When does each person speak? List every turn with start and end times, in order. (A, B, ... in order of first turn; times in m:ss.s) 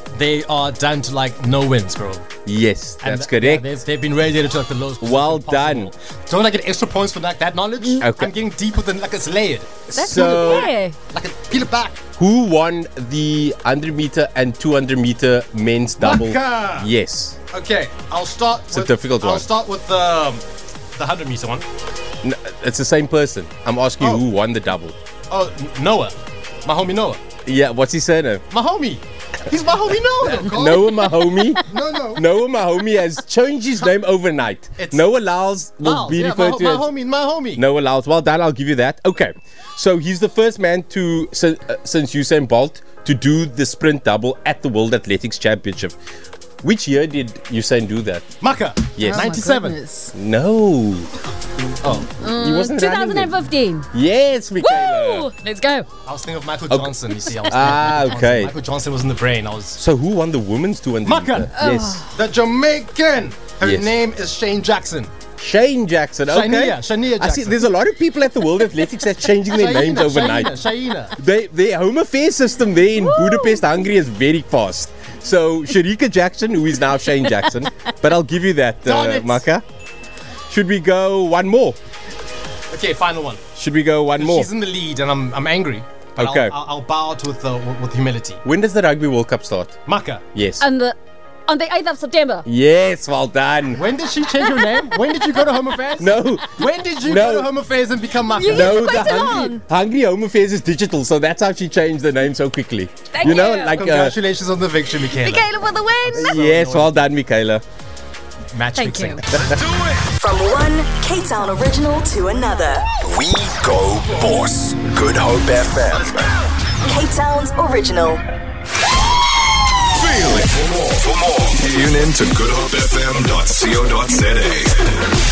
0:00.1-0:02.2 A
0:02.4-0:03.6 B
0:03.0-0:12.0 A
0:05.0-0:05.9 B
0:08.0-0:08.3 B
0:09.9-0:10.7 B
0:09.9-0:11.0 C
0:12.2-0:17.4 B
0:16.0-0:16.9 A
0:17.5-0:20.4 A
0:18.7-0:19.4 B
0:20.9-0:21.6 A
0:22.2-0:24.9 B
0:25.3-0:27.2 A
0:27.4-0:28.4 B
0:28.5-0:32.3 A
0:30.2-0:36.8 B
0:34.8-0:35.0 A
0:35.8-0:37.6 A
0:37.5-0:46.0 B
0:46.6-0:48.3 B
0:48.4-0:49.8 A
0:49.0-0:49.3 B
0:49.0-0:50.1 C
0:50.1-0:51.1 B
0:51.8-0:52.1 A
0:52.2-0:53.9 C
0:52.3-0:53.4 B
0:53.9-0:55.3 B
0:54.6-0:55.9 C
0:56.0-0:59.8 A
0:56.7-0:58.5 B
0:59.8-1:02.0 B
1:01.0-1:01.5 A
1:01.5-1:02.1 C
1:02.1-1:05.1 A
1:03.6-1:03.9 B
1:05.4-1:10.5 B
1:06.3-1:07.7 A
1:09.5-1:11.2 A
1:11.1-1:19.6 B
1:13.0-1:13.6 C
1:18.8-1:19.4 A
1:20.5-1:21.8 B
1:22.7-1:23.4 A
1:23.6-1:24.5 B
1:24.2-1:28.4 A
1:26.2-1:26.6 B
1:28.4-1:29.8 B
1:29.8-1:30.2 A
1:30.3-1:30.6 B
1:30.6-1:32.4 C
1:32.4-1:33.8 B
1:33.7-1:39.4 A
1:34.4-1:34.9 C
1:36.0-1:37.5 B
1:38.3-1:39.6 C
1:38.5-1:44.1 B
1:43.1-1:43.8 C
1:43.2-1:45.5 A
1:45.1-1:46.4 C
1:46.1-1:47.6 B
1:46.1-1:47.0 A
1:48.5-1:49.4 A
1:48.8-1:49.2 C
1:49.6-1:50.0 D
1:50.1-1:52.9 E
1:53.0-1:56.2 D
1:56.8-1:58.2 E
2:00.0-2:05.0 D